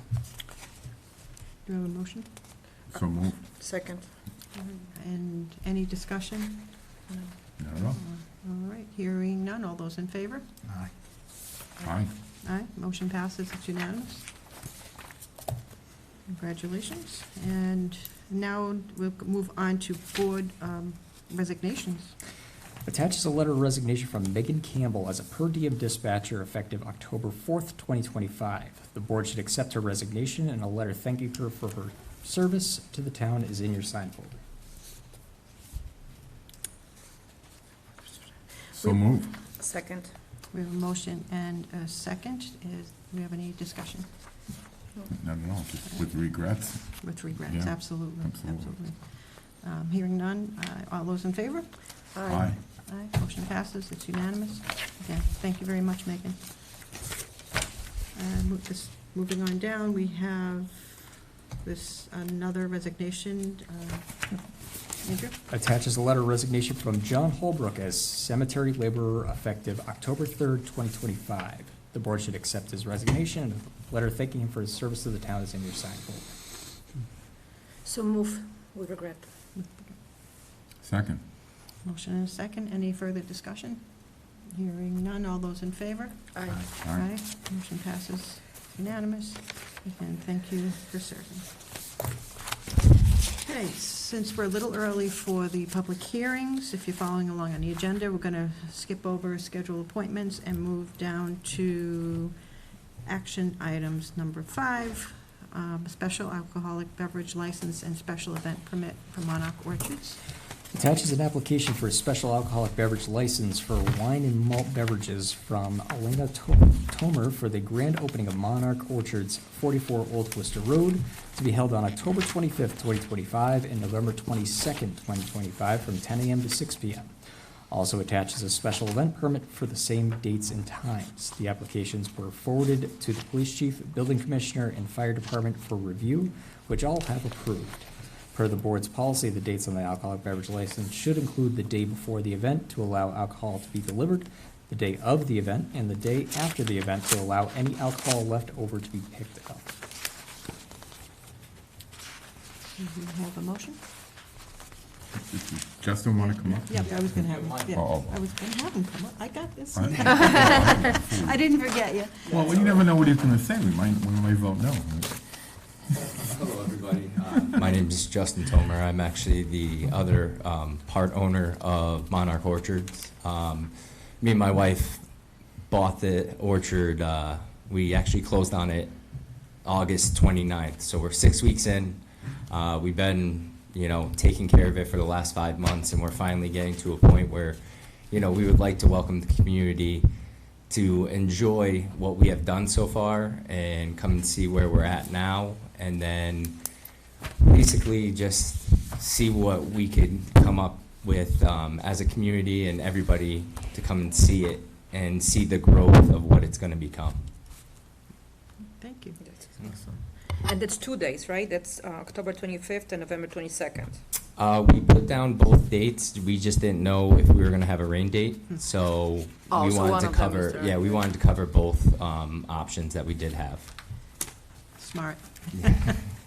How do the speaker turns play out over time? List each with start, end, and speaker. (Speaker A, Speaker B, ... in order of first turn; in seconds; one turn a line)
Speaker A: 1.6-2.3
Speaker B: 2.9-3.4
Speaker C: 3.4-4.1
Speaker A: 4.5-6.7
Speaker B: 7.6-8.0
Speaker A: 7.8-10.5
Speaker B: 11.8-12.1
Speaker A: 12.4-14.3
Speaker A: 16.3-22.1
Speaker D: 22.9-34.4
Speaker B: 38.8-39.3
Speaker C: 38.8-40.1
Speaker A: 40.5-44.1
Speaker B: 45.1-48.7
Speaker A: 47.0-52.1
Speaker C: 52.1-52.6
Speaker B: 52.3-52.6
Speaker A: 52.8-56.4
Speaker A: 58.1-64.4
Speaker A: 65.0-65.4
Speaker D: 65.5-76.3
Speaker C: 77.8-79.3
Speaker A: 79.5-79.9
Speaker B: 80.8-81.2
Speaker A: 81.8-91.5
Speaker C: 86.3-86.7
Speaker B: 86.7-87.1
Speaker A: 93.4-102.3
Speaker A: 103.0-110.2
Speaker D: 110.7-127.1
Speaker D: 127.7-149.7
Speaker A: 152.8-153.8
Speaker B: 155.3-156.9
Speaker A: 156.4-162.6
Speaker E: 156.8-157.9
Speaker B: 157.7-158.2
Speaker B: 159.7-161.6
Speaker B: 162.2-165.6
Speaker E: 166.0-175.1
Speaker E: 175.7-179.0
Speaker E: 179.6-190.1
Speaker E: 190.7-196.7
Speaker E: 197.4-207.3
Speaker A: 208.8-209.2
Speaker C: 209.2-214.0
Speaker E: 214.4-223.7
Speaker C: 219.5-221.0
Speaker A: 224.8-226.1